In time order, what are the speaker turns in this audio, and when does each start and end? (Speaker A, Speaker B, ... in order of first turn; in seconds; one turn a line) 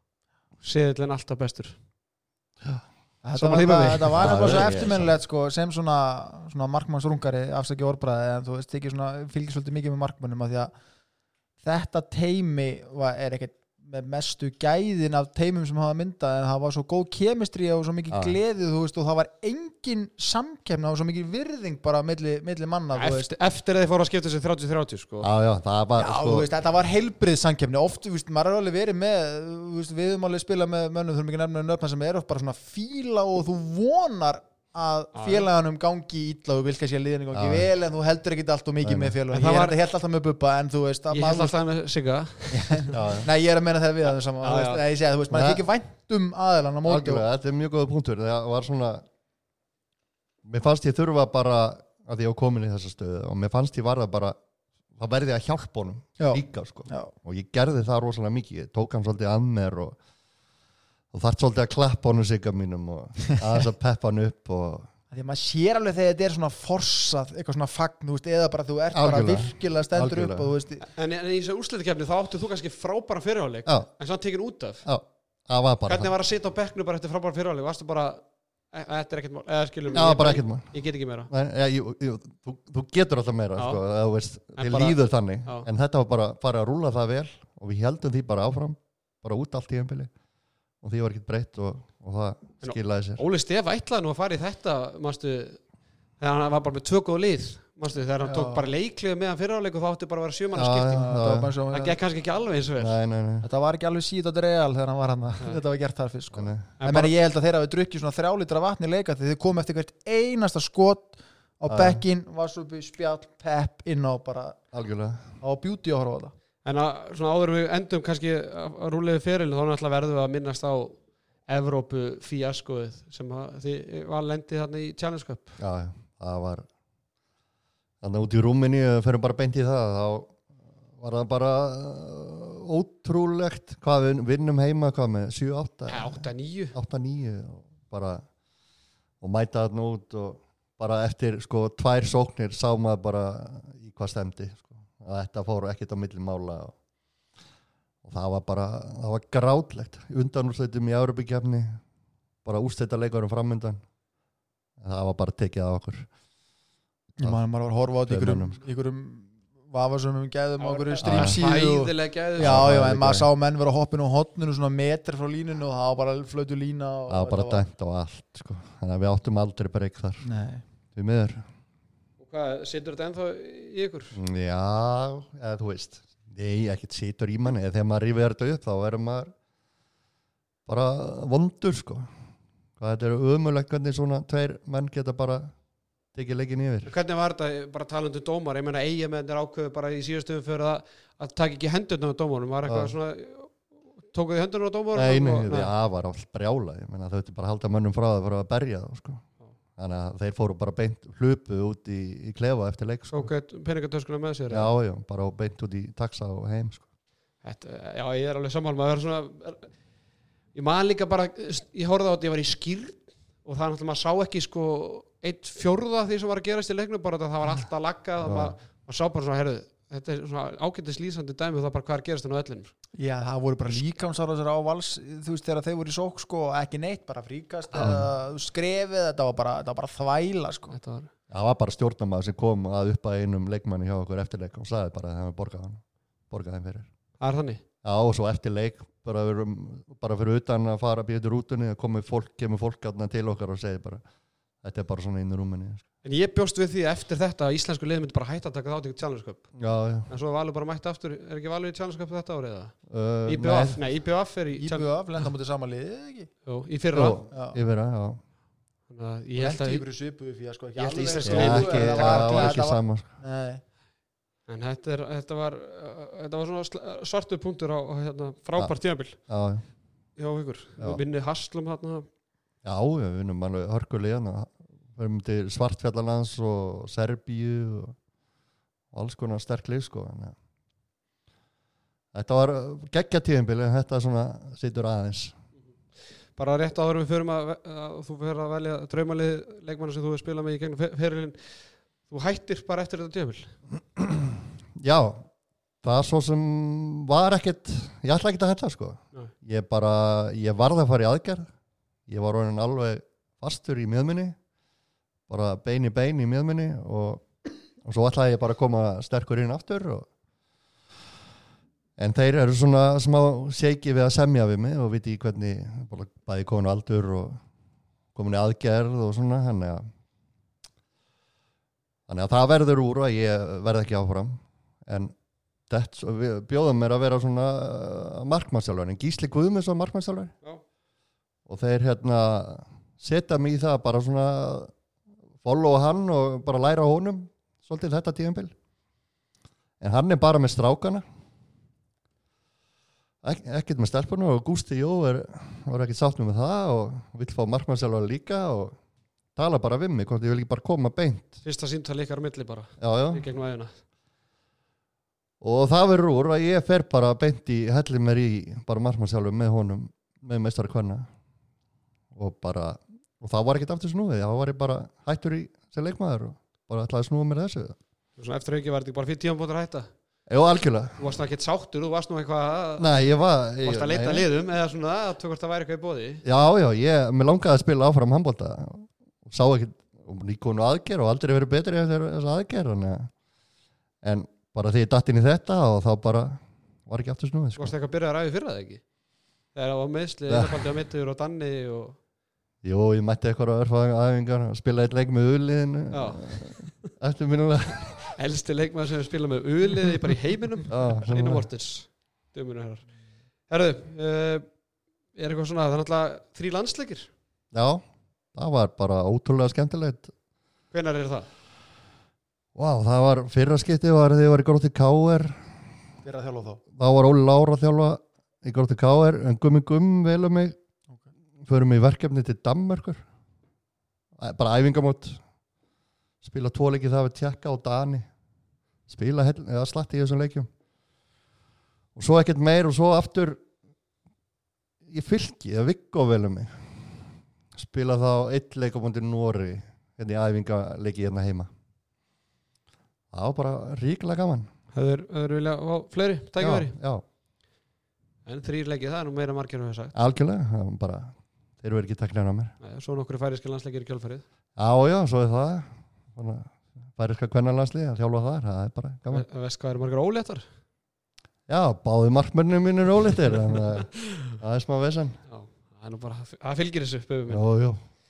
Speaker A: 0.6-1.8
Speaker B: 3.2-10.7
Speaker A: 3.4-4.9
Speaker C: 4.2-5.1
Speaker B: 11.6-23.3
Speaker C: 18.1-18.4
Speaker A: 22.9-25.3
Speaker C: 25.2-26.5
Speaker B: 26.0-41.5
Speaker A: 35.1-35.5
Speaker C: 37.3-37.7
Speaker C: 38.8-39.2
Speaker A: 39.3-39.8
Speaker A: 41.1-42.9
Speaker B: 42.5-47.3
Speaker C: 42.9-43.3
Speaker A: 44.4-44.8
Speaker C: 45.3-45.6
Speaker C: 46.8-49.0
Speaker C: 50.4-54.4
Speaker C: 55.0-60.0
Speaker B: 56.2-57.1
Speaker C: 61.1-64.9
Speaker B: 65.1-70.8
Speaker C: 68.9-70.5
Speaker A: 70.9-74.8
Speaker C: 74.8-76.1
Speaker A: 75.9-81.3
Speaker C: 79.9-80.7
Speaker C: 81.3-90.1
Speaker A: 83.5-83.8
Speaker A: 84.6-85.7
Speaker C: 90.8-93.2
Speaker A: 92.6-95.6
Speaker A: 96.2-101.1
Speaker B: 98.2-98.7
Speaker C: 100.5-101.5
Speaker B: 101.0-102.0
Speaker A: 101.7-103.0
Speaker C: 102.8-103.5
Speaker B: 103.4-114.6
Speaker C: 106.3-106.7
Speaker A: 106.8-107.1
Speaker C: 111.7-112.0
Speaker C: 114.7-115.3
Speaker B: 115.4-116.3
Speaker A: 116.6-125.6
Speaker C: 125.6-126.7
Speaker C: 128.0-130.3
Speaker C: 131.0-138.2
Speaker A: 135.9-136.8
Speaker C: 139.2-146.7
Speaker C: 148.0-151.8
Speaker C: 152.4-153.8
Speaker C: 154.8-156.1
Speaker B: 157.2-167.6
Speaker C: 158.1-158.6
Speaker A: 160.6-162.7
Speaker C: 161.0-161.4
Speaker C: 162.4-163.3
Speaker C: 167.1-170.2
Speaker B: 170.2-170.6
Speaker C: 170.9-171.4
Speaker A: 172.2-174.2
Speaker C: 174.1-179.3
Speaker C: 180.7-182.1
Speaker C: 182.8-185.5
Speaker C: 186.1-186.9
Speaker A: 186.8-195.7
Speaker C: 192.7-192.9
Speaker C: 194.9-199.2
Speaker C: 199.8-203.3
Speaker A: 203.1-204.7
Speaker C: 204.5-206.8
Speaker A: 207.4-209.7
Speaker A: 210.5-222.7
Speaker C: 218.2-218.5
Speaker B: 223.0-230.8
Speaker C: 227.7-228.0
Speaker A: 230.7-231.1
Speaker C: 231.3-236.9
Speaker A: 237.2-237.6
Speaker C: 237.8-244.0
Speaker C: 244.6-245.8
Speaker A: 246.0-249.5
Speaker C: 249.6-250.1
Speaker A: 250.1-252.7
Speaker C: 252.9-253.8
Speaker A: 253.2-254.9
Speaker B: 254.5-256.3
Speaker A: 256.4-257.2
Speaker C: 256.9-258.2
Speaker B: 257.3-257.6
Speaker A: 258.9-259.8
Speaker B: 259.4-263.6
Speaker A: 260.8-262.6
Speaker C: 261.2-263.1
Speaker A: 264.5-269.2
Speaker C: 269.3-269.6
Speaker A: 270.2-272.1
Speaker C: 272.6-277.9
Speaker C: 278.9-280.3
Speaker C: 282.1-285.3
Speaker A: 286.4-291.5
Speaker A: 292.1-293.5
Speaker C: 294.0-295.3
Speaker C: 295.8-301.5
Speaker C: 302.1-304.4
Speaker C: 305.3-307.2
Speaker C: 307.8-310.1
Speaker C: 312.0-317.4
Speaker C: 318.1-319.9
Speaker C: 322.1-325.1
Speaker C: 325.7-330.3
Speaker C: 331.5-334.7
Speaker C: 335.4-338.5
Speaker C: 339.8-341.0
Speaker C: 343.2-348.8
Speaker C: 349.4-351.4
Speaker A: 351.4-353.7
Speaker C: 352.8-353.2
Speaker C: 355.4-361.1
Speaker C: 362.1-367.8
Speaker A: 368.2-369.9
Speaker C: 370.3-371.0
Speaker A: 371.0-373.0
Speaker C: 372.8-374.3
Speaker A: 373.6-376.2
Speaker C: 376.2-383.1
Speaker C: 384.0-387.7
Speaker A: 387.6-388.8
Speaker A: 389.5-392.0
Speaker C: 390.3-390.6
Speaker C: 392.6-398.0
Speaker A: 395.9-396.7
Speaker A: 398.1-402.8
Speaker C: 400.7-401.4
Speaker A: 403.5-404.4
Speaker A: 405.1-407.1
Speaker C: 407.5-407.8
Speaker C: 408.3-410.1
Speaker A: 410.7-411.3
Speaker C: 412.5-415.4
Speaker B: 416.0-416.6
Speaker C: 416.7-420.6
Speaker C: 421.4-423.0
Speaker C: 424.2-425.2
Speaker C: 426.2-428.1
Speaker C: 428.9-430.5
Speaker C: 431.9-433.4
Speaker C: 434.9-436.5
Speaker C: 437.6-441.5
Speaker C: 443.1-444.5
Speaker A: 444.7-446.7
Speaker C: 446.4-447.0
Speaker A: 448.2-449.9
Speaker C: 449.9-452.5
Speaker A: 452.6-454.2
Speaker C: 454.6-459.2
Speaker A: 459.1-460.4
Speaker C: 461.5-465.2
Speaker A: 465.3-467.4
Speaker C: 467.3-467.8